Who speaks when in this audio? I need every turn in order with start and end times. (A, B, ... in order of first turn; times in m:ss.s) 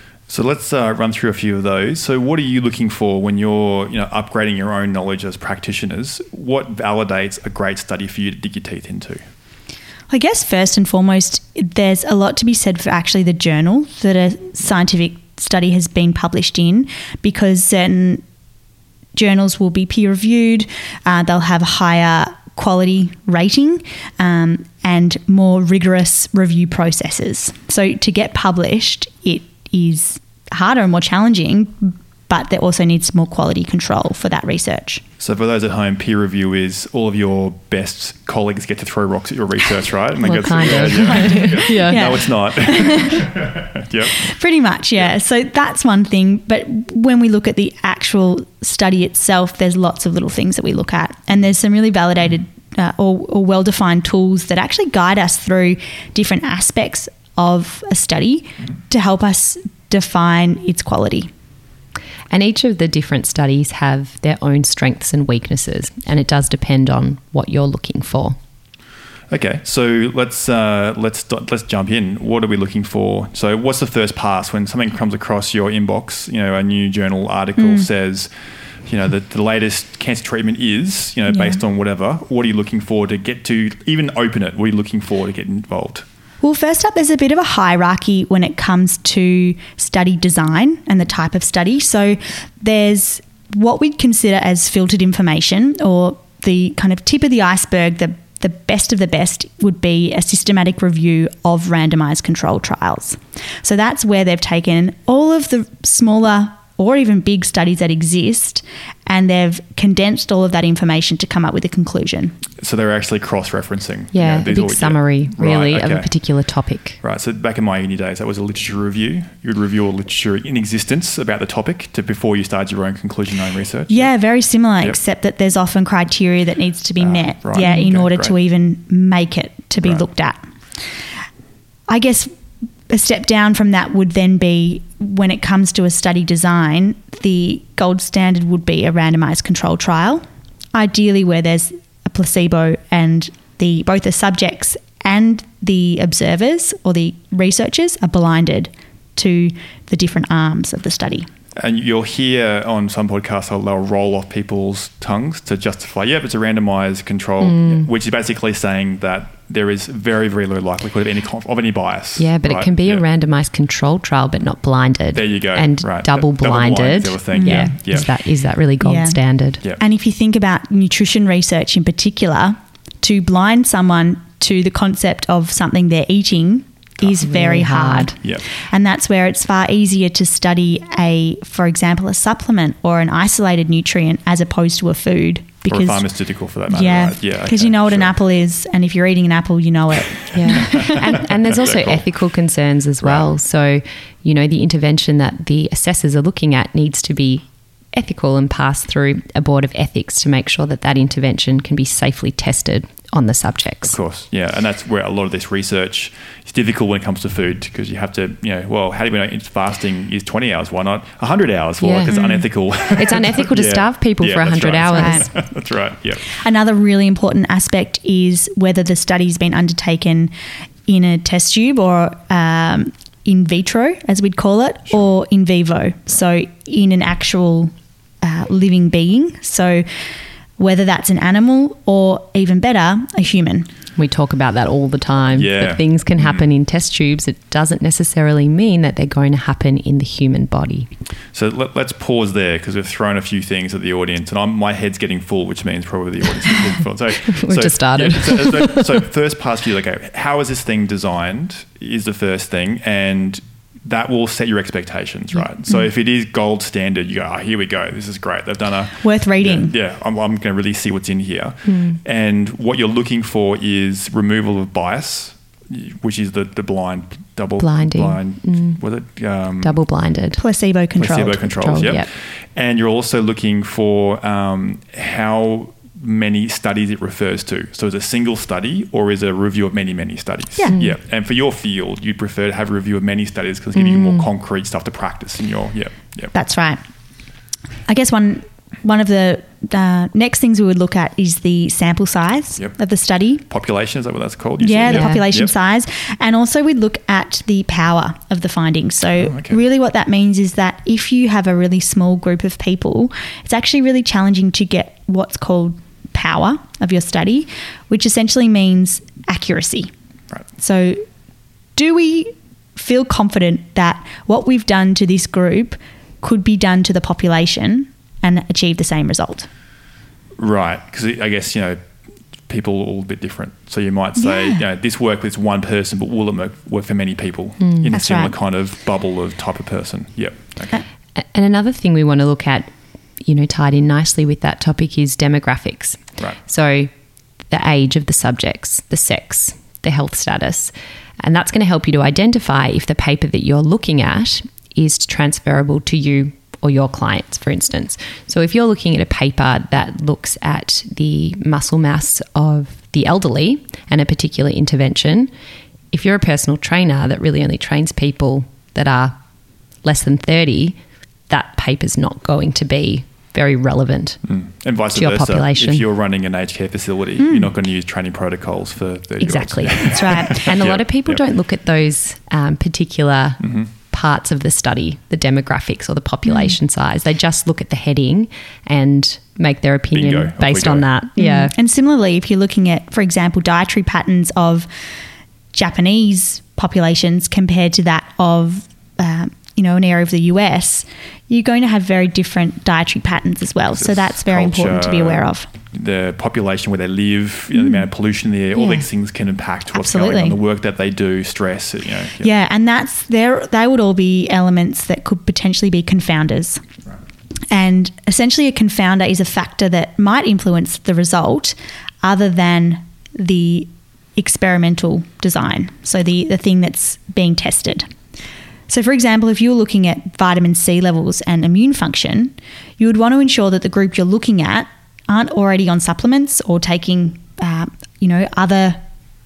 0:00.3-0:09.2 A
0:10.1-0:18.2 B
0:19.1-0:35.0 B
0:35.2-0:44.3 A
0:40.2-0:42.2 C
0:41.0-0:43.5 B
0:44.1-1:01.3 B
1:02.3-1:08.4 C
1:09.3-1:18.3 A
1:17.6-1:17.8 B
1:18.8-1:26.0 A
1:21.3-1:21.6 B
1:26.4-1:52.4 B
1:52.6-1:56.1 A
1:54.1-1:57.0 C
1:57.0-2:04.1 A
2:03.9-2:10.4 B
2:07.0-2:08.3 A
2:11.9-2:12.3 B
2:12.9-2:20.2 B
2:20.7-2:31.3 B
2:31.6-2:43.0 A
2:37.4-2:37.9 C
2:42.2-2:49.6 C
2:45.1-2:48.1 A
2:47.3-2:48.0 B
2:48.8-2:49.2 B
2:49.8-3:06.0 B
2:57.2-2:58.1 C
3:05.7-3:08.1 A
3:06.7-3:11.2 B
3:10.3-3:24.0 C
3:11.2-3:12.0 A
3:13.0-3:13.3 A
3:23.8-3:36.3 A
3:31.8-3:32.2 C
3:32.1-3:32.4 B
3:32.8-3:35.3 C
3:34.9-3:35.3 B
3:36.2-3:40.3 B
3:40.9-3:49.8 B
3:50.6-3:53.7 B
3:54.0-4:00.9 C
3:55.3-3:56.4 A
4:01.3-4:29.8 A
4:07.2-4:09.0 C
4:19.0-4:19.7 B
4:21.6-4:22.0 C
4:27.6-4:28.8 C
4:29.6-4:30.4 C
4:30.4-4:31.4 B
4:31.0-4:46.3 A
4:31.6-4:32.1 C
4:40.7-4:41.0 C
4:43.8-4:44.2 C
4:46.3-4:46.8 B
4:47.9-4:53.4 B
4:53.5-4:55.5 A
4:54.6-5:09.9 B
4:54.9-4:55.3 C
4:59.2-4:59.6 A
5:10.6-5:11.0 B
5:11.8-5:19.5 B
5:20.4-5:21.8 A
5:22.4-5:30.8 A
5:24.2-5:24.6 B
5:27.6-5:27.9 C
5:27.9-5:28.3 B
5:31.2-5:32.7 C
5:33.2-5:36.9 C
5:37.5-5:55.3 C
5:55.9-5:59.2 C
5:59.8-6:00.8 C
6:01.3-6:04.2 C
6:04.3-6:11.2 A
6:04.9-6:05.8 C
6:07.2-6:07.5 B
6:09.2-6:21.5 C
6:09.8-6:10.4 B
6:13.4-6:13.7 A
6:16.2-6:16.6 B
6:19.9-6:20.8 A
6:21.2-6:24.7 B
6:25.5-6:35.5 B
6:33.7-6:42.3 A
6:37.5-6:37.8 B
6:38.5-6:38.8 C
6:39.7-6:40.4 B
6:42.2-6:46.6 B
6:47.5-6:57.9 B
6:58.7-7:08.8 B